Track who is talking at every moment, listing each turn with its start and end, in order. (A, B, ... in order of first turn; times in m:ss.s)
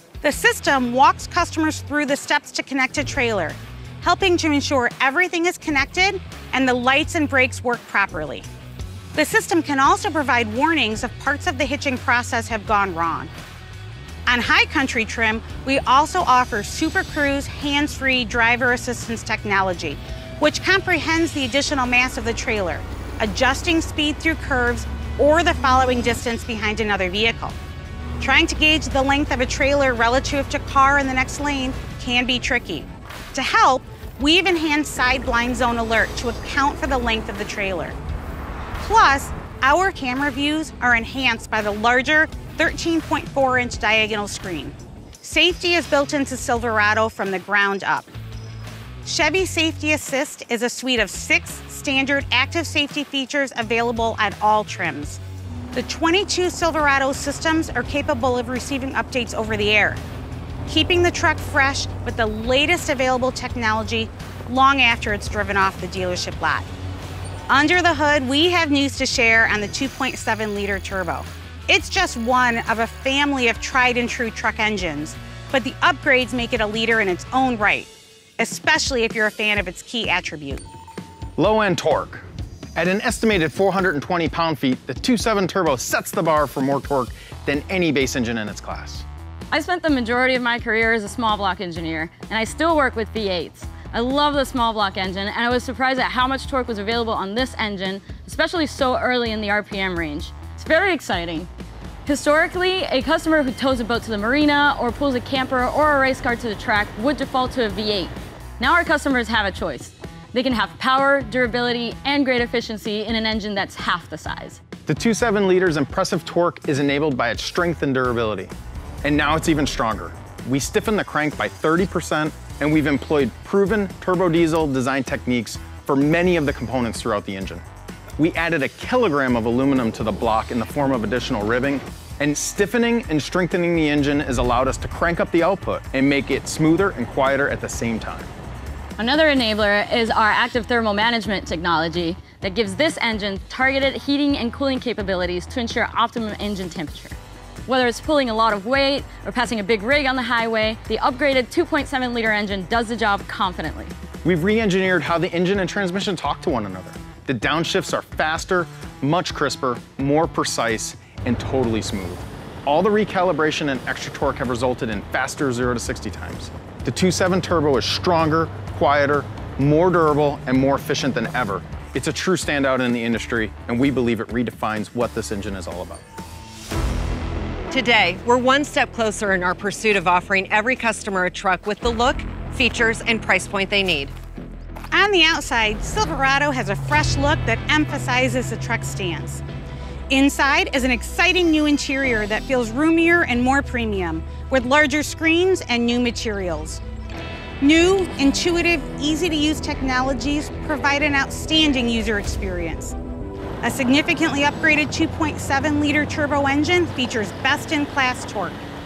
0:00.2-0:08.5 A
0:09.2-0:13.3 A
0:14.3-0:27.6 A
0:28.2-0:38.0 A
0:38.8-0:48.1 A
0:49.0-0:55.2 A
0:55.7-1:00.0 A
1:00.7-1:06.7 A
1:07.5-1:20.6 A
1:21.4-1:22.2 B
1:22.8-1:29.0 B
1:29.5-1:41.5 C
1:42.0-1:54.6 C
1:54.9-1:58.5 B
1:59.0-2:07.6 B
2:08.2-2:18.3 B
2:19.0-2:27.2 C
2:27.7-2:33.9 C
2:34.2-2:56.0 B
2:57.7-3:04.1 D
3:04.9-3:09.4 A
3:10.1-3:16.8 A
3:17.6-3:23.0 A
3:23.6-3:28.7 A